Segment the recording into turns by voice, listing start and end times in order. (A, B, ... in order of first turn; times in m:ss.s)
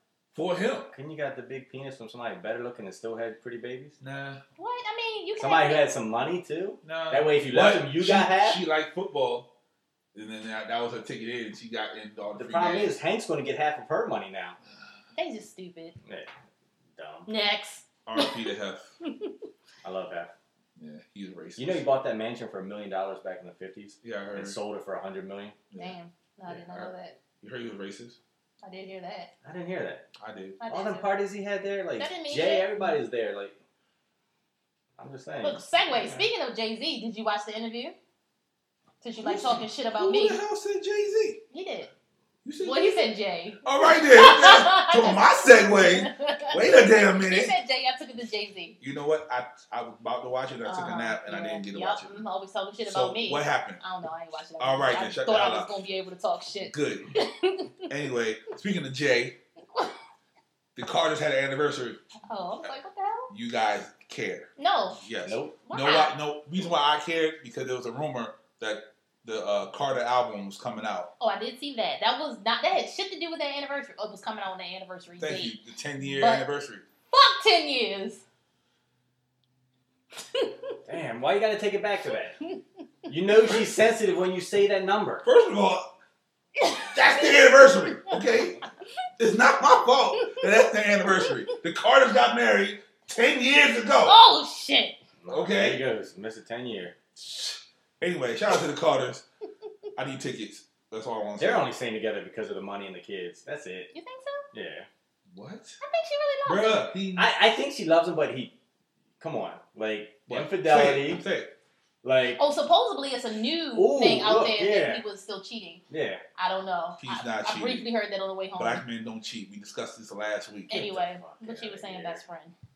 0:00.3-0:00.9 A
0:00.9-0:04.0 B
0:04.0-0:04.4 A
0:04.6-0:05.8 C
0:05.4-0:08.6 B
0:06.8-0:09.5 A
0:10.1-0:13.0 A
0:12.4-0:14.6 B
0:15.2-0:16.0 C
0:16.0-0:16.3 B
0:17.0-0:17.3 B
0:17.3-0:18.4 C
0:18.1-0:18.9 A
0:19.0-0:19.3 C
0:19.8-0:20.3 B
0:20.8-0:21.9 A
0:21.6-0:25.6 B
0:24.0-0:24.6 A
0:25.8-0:27.2 C
0:26.5-0:28.2 A
0:28.6-0:29.3 C
0:29.4-0:30.1 B
0:30.2-0:30.6 A
0:30.6-0:31.1 C
0:30.7-0:33.6 B
0:32.0-0:32.7 C
0:35.0-0:36.3 B
0:35.4-0:38.0 C
0:39.0-0:40.4 C
0:39.2-0:41.4 A
0:41.5-0:41.9 C
0:42.4-0:43.1 A
0:42.6-0:48.8 C
0:43.6-0:47.6 A
0:48.8-0:52.2 A
0:50.7-0:57.8 C
0:52.8-0:53.8 A
0:54.6-0:55.8 A
0:56.6-0:57.1 A
0:57.9-0:59.4 A
1:00.8-1:02.0 A
1:02.3-1:03.3 C
1:03.3-1:11.1 A
1:04.6-1:05.0 C
1:05.3-1:05.6 B
1:05.6-1:06.2 C
1:11.2-1:15.6 C
1:15.2-1:16.8 A
1:16.2-1:16.4 C
1:17.1-1:18.2 C
1:20.2-1:20.8 C
1:20.9-1:22.4 B
1:23.1-1:25.3 B
1:25.2-1:25.9 A
1:26.6-1:27.5 C
1:26.9-1:28.6 A
1:29.2-1:34.2 A
1:30.2-1:31.4 C
1:34.0-1:35.0 C
1:35.2-1:37.0 B
1:35.3-1:35.8 A
1:37.2-1:39.2 A
1:40.0-1:41.7 A
1:41.4-1:43.9 B
1:43.9-1:44.5 C
1:44.5-1:44.9 B
1:45.3-1:45.8 A
1:45.8-1:46.9 C
1:46.4-1:47.3 A
1:47.2-1:48.5 B
1:49.2-1:51.2 B
1:50.3-1:51.5 A
1:52.0-1:52.4 B
1:52.4-1:55.8 C
1:53.7-1:55.0 B
1:55.9-1:56.2 B
1:56.4-1:58.8 C
1:57.0-1:57.9 A
1:58.6-2:00.8 A
2:00.7-2:02.2 B
2:00.7-2:02.5 C